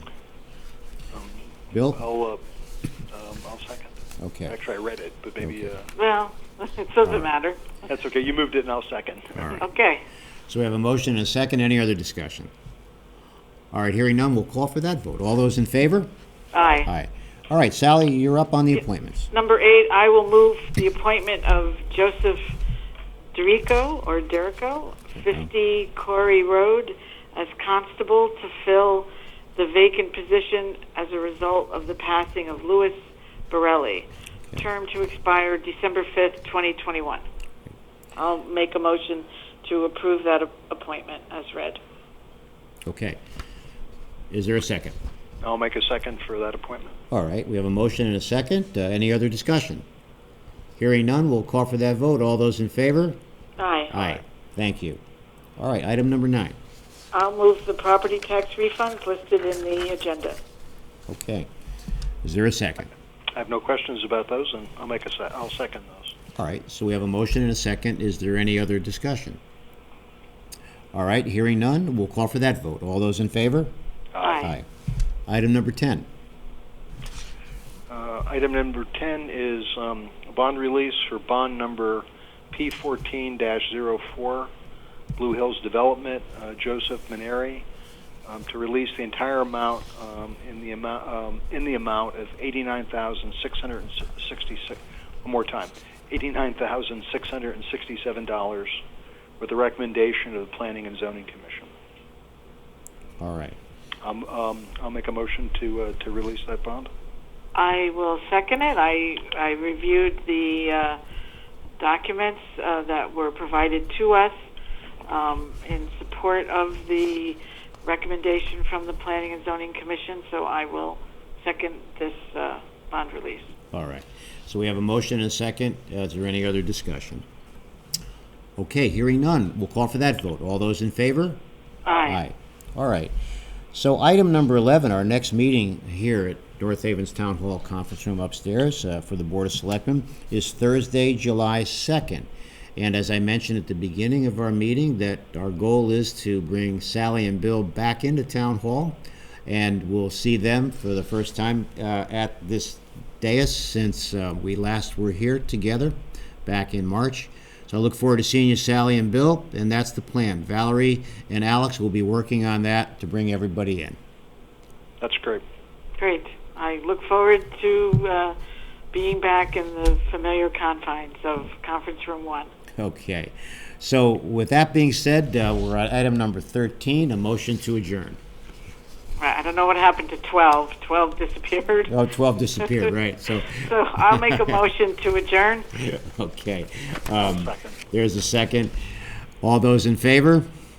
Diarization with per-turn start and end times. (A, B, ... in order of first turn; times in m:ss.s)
0:01.1-0:02.4 A
0:01.7-0:02.0 B
0:03.1-0:03.9 A
0:04.2-0:04.6 B
0:04.5-0:05.9 A
0:06.0-0:07.6 C
0:07.9-0:09.6 A
0:09.6-0:10.0 C
0:10.5-0:12.5 B
0:13.7-0:16.1 B
0:16.5-0:16.9 C
0:16.8-0:19.3 B
0:19.3-0:22.4 C
0:23.3-0:33.0 C
0:33.5-0:37.2 C
0:38.2-0:41.8 C
0:42.9-0:43.2 B
0:44.3-0:45.0 B
0:45.4-0:46.9 A
0:47.1-0:49.8 B
0:50.8-0:53.2 B
0:53.6-0:53.9 C
0:53.9-0:55.0 B
0:55.6-0:56.6 B
0:57.1-1:00.4 C
1:01.1-1:01.5 B
1:02.2-1:02.9 B
1:03.3-1:06.1 A
1:06.4-1:09.4 B
1:10.9-1:13.7 B
1:14.1-1:14.4 A
1:14.2-1:14.5 C
1:14.4-1:14.7 B
1:15.3-1:16.1 B
1:17.9-1:24.5 A
1:25.2-1:27.6 A
1:28.3-1:38.8 A
1:39.4-1:41.7 A
1:43.2-1:43.6 B
1:44.0-1:46.9 A
1:47.6-1:51.0 C
1:51.8-1:54.3 C
1:55.1-2:03.5 C
2:03.7-2:07.2 B
2:08.6-2:11.4 B
2:11.8-2:12.2 C
2:12.0-2:13.1 B
2:13.7-2:44.0 B
2:45.0-2:45.4 A
2:46.0-2:48.4 C
2:48.9-2:52.5 C
2:52.8-2:58.2 B
2:59.2-3:01.9 C
3:01.9-3:04.6 B
3:02.6-3:02.9 C
3:03.5-3:05.7 C
3:05.8-3:08.8 B
3:07.2-3:07.8 A
3:09.4-3:10.5 B